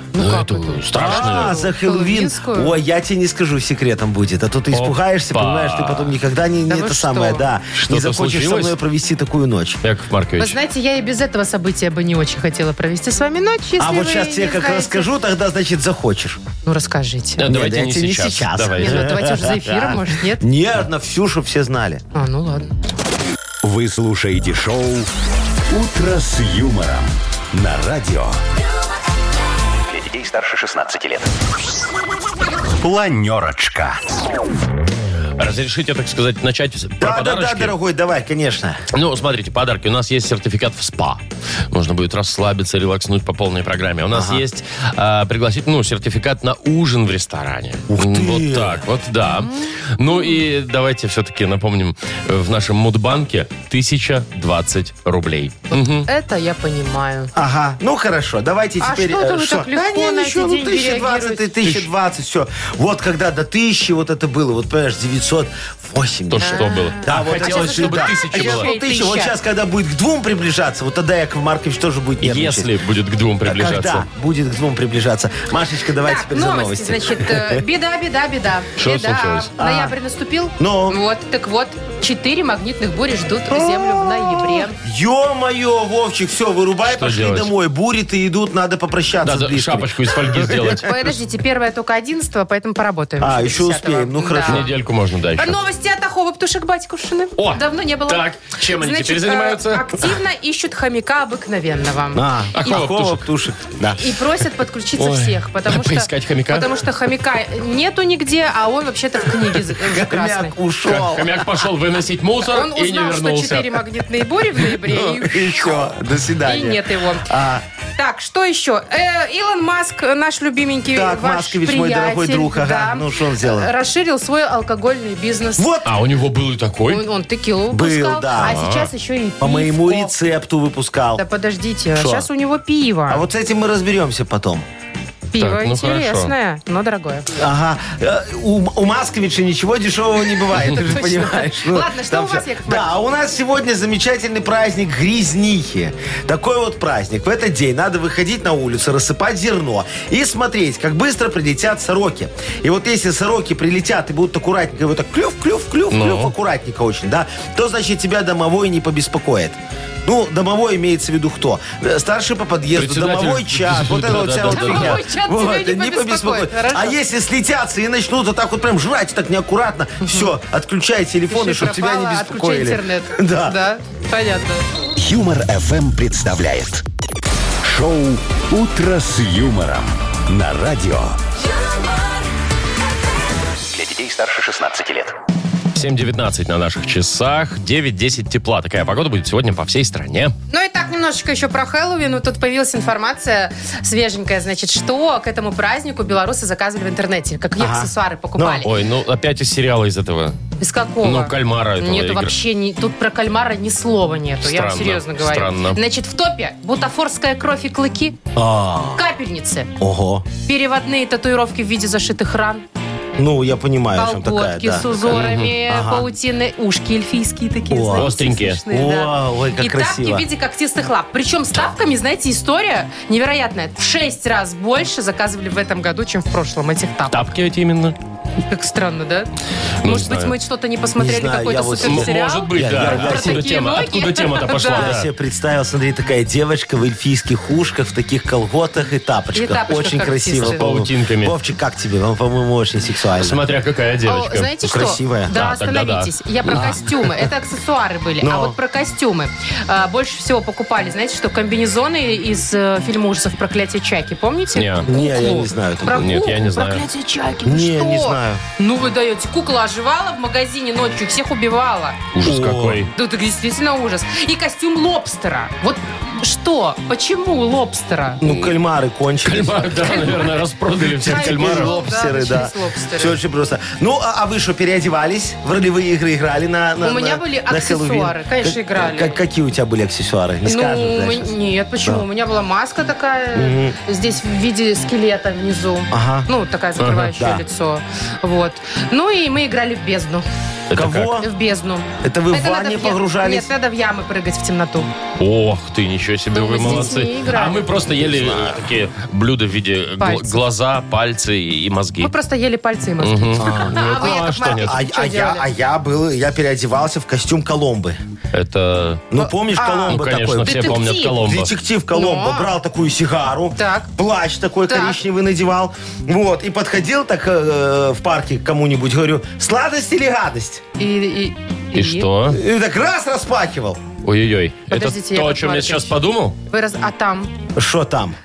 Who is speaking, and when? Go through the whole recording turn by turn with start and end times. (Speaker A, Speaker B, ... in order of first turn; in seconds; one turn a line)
Speaker A: 0.1-2.8
Speaker B: 0.1-1.6
Speaker C: 0.9-9.8
Speaker B: 4.7-6.2
Speaker A: 6.7-7.5
Speaker B: 7.7-8.8
Speaker B: 9.8-10.6
Speaker A: 10.4-15.1
Speaker C: 13.8-16.4
Speaker A: 16.6-17.4
Speaker B: 17.4-19.0
Speaker C: 17.4-22.0
Speaker A: 18.7-20.4
Speaker A: 22.1-22.7
Speaker D: 23.6-25.1
Speaker D: 25.7-28.4
Speaker D: 29.9-31.3
Speaker D: 32.8-34.0
Speaker B: 35.4-37.8
Speaker C: 37.0-38.8
Speaker B: 38.9-56.1
Speaker C: 44.1-44.4
Speaker C: 47.9-48.8
Speaker A: 49.4-49.7
Speaker A: 55.7-57.3
Speaker C: 57.3-72.7
Speaker A: 58.8-61.5
Speaker B: 61.6-61.9
Speaker B: 66.3-68.7
Speaker A: 66.4-69.3
Speaker B: 72.2-74.1
Speaker C: 73.5-77.6
Speaker A: 76.0-84.8
Speaker B: 78.8-79.5
Speaker C: 79.6-80.0
Speaker C: 80.6-81.0
Speaker C: 83.5-90.8
Speaker B: 86.9-87.5
Speaker B: 89.2-90.9
Speaker A: 90.8-94.7
Speaker C: 93.2-94.7
Speaker B: 94.5-95.6
Speaker A: 95.4-102.3
Speaker B: 97.4-100.1
Speaker C: 102.1-104.1
Speaker B: 102.5-103.3
Speaker A: 104.0-110.5
Speaker B: 105.0-106.8
Speaker C: 109.7-111.5
Speaker B: 110.9-113.8
Speaker A: 112.5-115.9
Speaker C: 114.8-117.6
Speaker A: 116.5-117.3
Speaker A: 118.0-125.7
Speaker C: 120.9-123.7
Speaker C: 125.6-125.9
Speaker B: 125.8-127.0
Speaker A: 126.9-130.2
Speaker C: 127.7-128.7
Speaker B: 128.4-128.9
Speaker C: 129.4-131.2
Speaker A: 131.2-133.2
Speaker C: 131.9-132.3
Speaker C: 133.1-134.7
Speaker A: 135.3-137.3
Speaker B: 135.4-136.3
Speaker C: 137.3-173.6
Speaker A: 140.6-142.9
Speaker B: 155.9-156.3
Speaker B: 162.8-165.0
Speaker A: 164.5-167.0
Speaker A: 170.0-170.3
Speaker A: 171.3-174.7
Speaker D: 175.0-176.8
Speaker D: 177.6-181.2
Speaker D: 183.7-185.2
Speaker B: 185.8-190.3
Speaker A: 190.5-198.7
Speaker C: 197.6-198.7
Speaker B: 198.6-200.4
Speaker A: 200.6-208.2
Speaker B: 201.0-202.3
Speaker B: 204.4-205.8
Speaker C: 208.3-209.0
Speaker A: 208.9-209.7
Speaker C: 209.8-210.3
Speaker A: 210.4-212.7
Speaker C: 213.2-216.1
Speaker A: 214.0-227.3
Speaker B: 215.1-215.5
Speaker C: 217.7-220.3
Speaker B: 218.0-218.6
Speaker B: 227.1-228.0
Speaker A: 228.5-229.3
Speaker B: 229.8-230.3
Speaker A: 229.8-234.9
Speaker C: 231.0-233.5
Speaker B: 231.8-235.1
Speaker C: 234.5-243.4
Speaker A: 239.3-240.7
Speaker B: 240.4-241.3
Speaker B: 243.2-244.5
Speaker A: 244.1-262.0
Speaker C: 244.6-245.4
Speaker B: 245.3-246.7
Speaker C: 246.5-247.1
Speaker C: 248.2-248.6
Speaker B: 254.6-254.9
Speaker C: 254.8-256.4
Speaker B: 255.9-256.9
Speaker C: 257.4-258.4
Speaker B: 262.1-262.9
Speaker C: 262.2-262.8
Speaker A: 262.9-268.2
Speaker C: 268.2-270.1
Speaker B: 268.3-268.5
Speaker B: 269.2-271.7
Speaker C: 270.9-281.3
Speaker A: 271.0-273.2
Speaker A: 276.8-279.2
Speaker A: 280.5-290.3
Speaker C: 283.3-283.8
Speaker C: 285.9-286.3
Speaker B: 286.8-287.2
Speaker C: 287.2-287.4
Speaker B: 290.7-291.2
Speaker C: 290.8-291.3
Speaker A: 291.2-294.9
Speaker C: 292.0-293.5
Speaker B: 295.2-302.1
Speaker A: 296.3-297.7
Speaker C: 296.6-297.0
Speaker C: 297.9-298.6
Speaker A: 300.0-300.4
Speaker A: 302.0-305.5
Speaker B: 303.0-304.8
Speaker C: 303.4-308.0
Speaker B: 308.3-309.1
Speaker C: 309.1-320.6
Speaker A: 309.2-311.2
Speaker B: 309.9-311.5
Speaker A: 311.9-312.5
Speaker A: 313.6-313.9
Speaker A: 314.7-315.0
Speaker A: 320.8-322.1
Speaker B: 321.8-322.4
Speaker C: 322.3-323.8
Speaker B: 324.0-326.4
Speaker A: 324.7-326.0
Speaker A: 326.5-327.4
Speaker C: 327.6-328.2